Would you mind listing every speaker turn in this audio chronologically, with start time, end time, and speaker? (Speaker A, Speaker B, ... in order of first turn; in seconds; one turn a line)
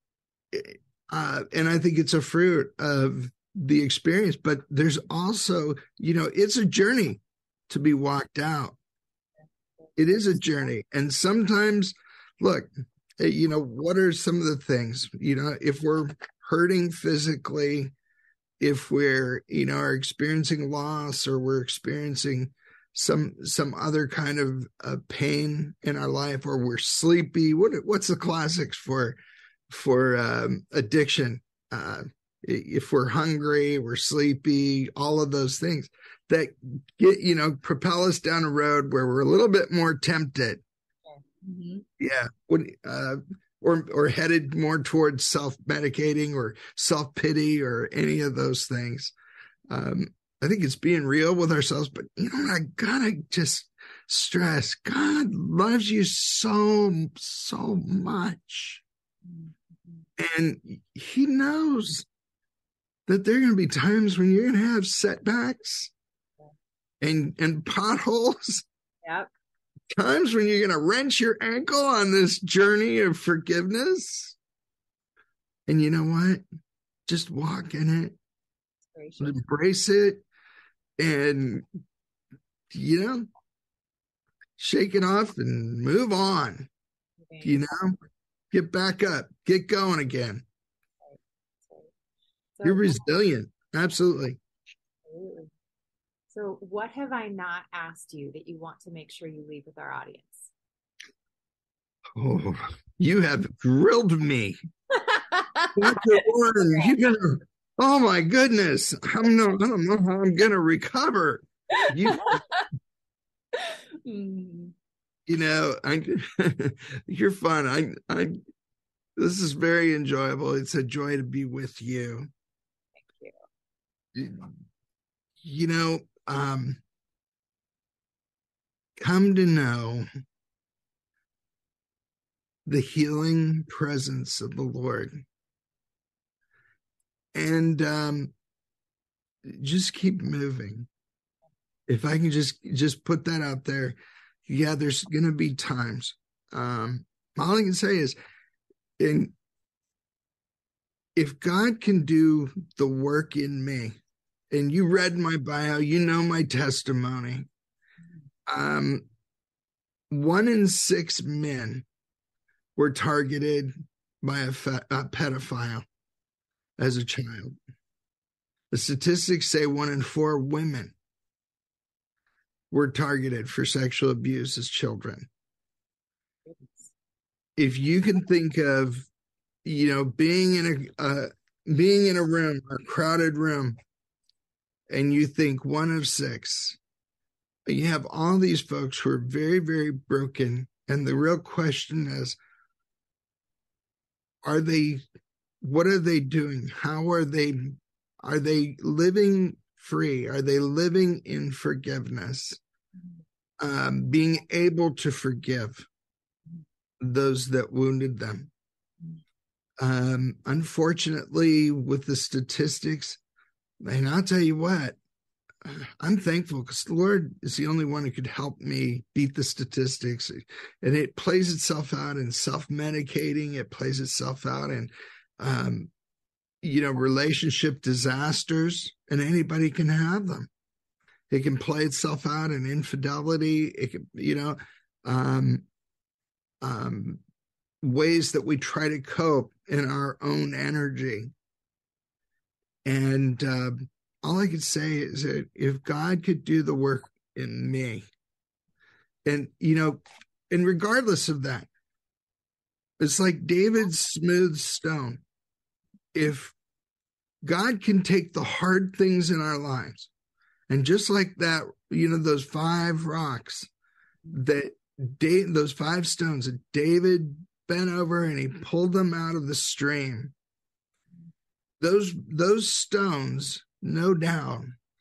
Speaker A: 0.5-8.8
Speaker A: 10.0-17.9
Speaker A: 18.6-29.2
Speaker A: 29.7-40.6
Speaker B: 41.1-41.9
Speaker A: 42.0-49.1
Speaker A: 49.7-58.8
Speaker B: 59.3-60.1
Speaker A: 60.2-62.1
Speaker A: 63.1-65.9
Speaker A: 67.0-68.7
Speaker B: 69.0-69.3
Speaker A: 69.9-74.4
Speaker A: 75.7-76.4
Speaker A: 77.1-78.2
Speaker B: 79.0-79.4
Speaker A: 79.2-80.2
Speaker A: 81.0-81.7
Speaker A: 82.7-83.3
Speaker A: 84.6-86.7
Speaker B: 87.2-87.7
Speaker A: 87.4-88.0
Speaker A: 88.5-90.5
Speaker B: 91.0-91.9
Speaker B: 92.6-93.0
Speaker A: 92.6-94.4
Speaker B: 95.1-95.5
Speaker B: 96.3-100.5
Speaker A: 102.2-104.6
Speaker B: 105.1-106.1
Speaker A: 105.8-112.4
Speaker B: 111.8-112.7
Speaker B: 113.6-114.7
Speaker A: 115.3-118.4
Speaker A: 119.2-122.3
Speaker B: 123.0-123.3
Speaker A: 124.2-124.5
Speaker A: 125.4-126.8
Speaker A: 129.0-130.1
Speaker A: 132.7-135.2
Speaker A: 137.3-138.3
Speaker A: 139.4-140.9
Speaker A: 141.9-148.2
Speaker A: 149.0-149.3
Speaker A: 151.2-154.0
Speaker A: 154.5-157.5
Speaker A: 158.5-159.1
Speaker A: 160.1-161.8
Speaker A: 162.8-165.8
Speaker A: 166.8-167.6
Speaker A: 168.7-170.9
Speaker A: 172.7-175.3
Speaker B: 176.5-176.9
Speaker A: 177.6-179.1
Speaker A: 179.7-183.8
Speaker A: 184.9-186.8
Speaker A: 187.7-192.4
Speaker A: 194.4-195.0
Speaker A: 195.6-202.6
Speaker A: 203.6-205.9
Speaker A: 207.0-208.5
Speaker A: 209.8-213.2
Speaker A: 213.8-215.0
Speaker A: 215.6-225.9
Speaker A: 226.6-230.5
Speaker A: 231.3-235.7
Speaker A: 236.6-237.2
Speaker A: 237.8-241.3
Speaker A: 242.8-248.1
Speaker A: 249.3-251.7
Speaker A: 253.0-255.2
Speaker A: 256.1-256.5
Speaker A: 257.4-260.1
Speaker A: 260.7-263.7
Speaker A: 264.3-270.3
Speaker A: 271.8-274.7